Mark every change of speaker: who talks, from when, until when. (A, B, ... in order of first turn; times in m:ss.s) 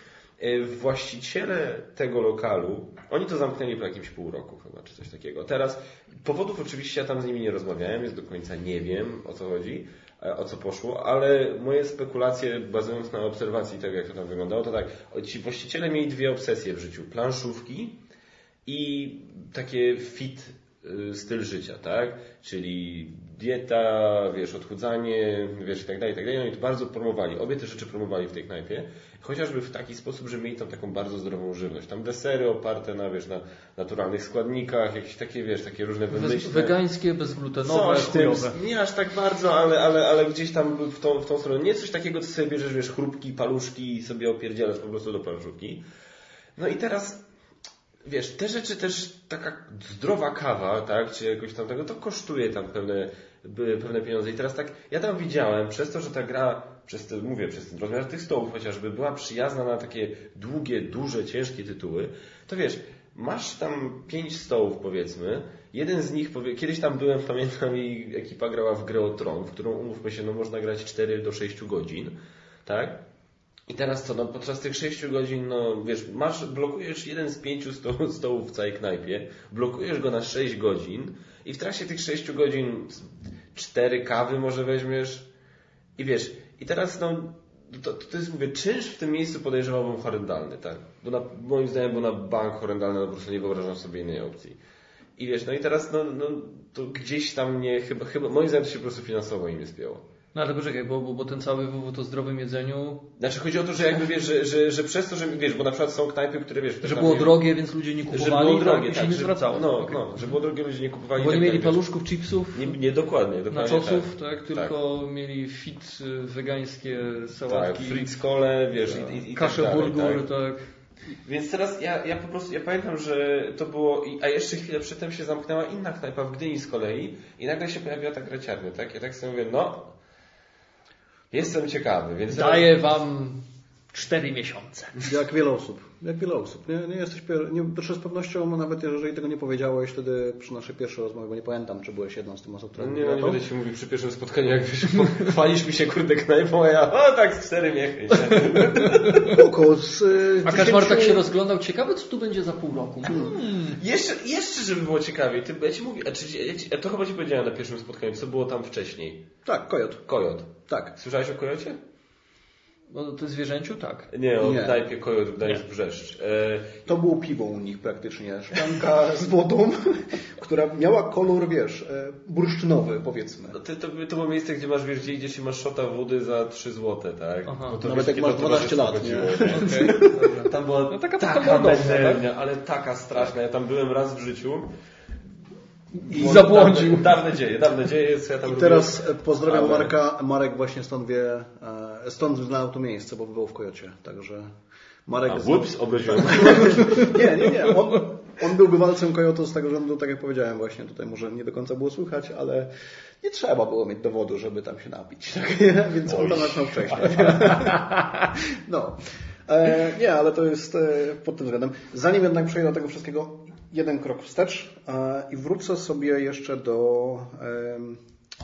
0:00.4-0:18.0 A
0:18.7-0:36.7 A
0:36.1-0:38.6 B
0:37.6-0:45.8 A
0:46.6-0:47.2 A
0:48.0-1:13.0 A
1:13.7-1:25.3 A
1:26.0-1:34.6 A
1:35.2-1:40.0 A
1:40.3-1:43.0 B
1:43.2-1:47.4 A
1:46.8-1:50.1 B
1:48.1-1:51.9 A
1:51.2-1:52.8 B
1:52.5-1:54.8 A
1:53.5-1:58.1 B
1:57.5-2:00.2 A
1:58.8-2:00.6 B
2:01.2-2:09.9 A
2:11.3-2:12.8 A
2:12.3-2:13.4 B
2:13.9-2:15.1 B
2:15.0-2:23.4 C
2:22.8-2:29.4 A
2:28.8-2:29.4 B
2:29.2-2:31.2 C
2:30.4-2:33.8 B
2:33.1-2:33.4 C
2:33.1-2:39.2 A
2:39.4-2:40.1 C
2:40.1-2:41.8 A
2:40.7-2:41.0 C
2:42.9-2:44.1 B
2:44.1-2:46.8 A
2:44.4-2:44.8 C
2:46.9-2:53.6 C
2:53.5-3:04.7 A
2:57.5-2:57.8 B
2:57.8-3:00.1 C
2:59.5-3:02.3 B
3:06.0-3:07.2 B
3:06.1-3:10.0 A
3:08.4-3:14.5 C
3:15.1-3:22.7 C
3:15.3-3:17.3 A
3:23.2-3:38.0 C
3:26.1-3:27.7 A
3:27.5-3:28.0 B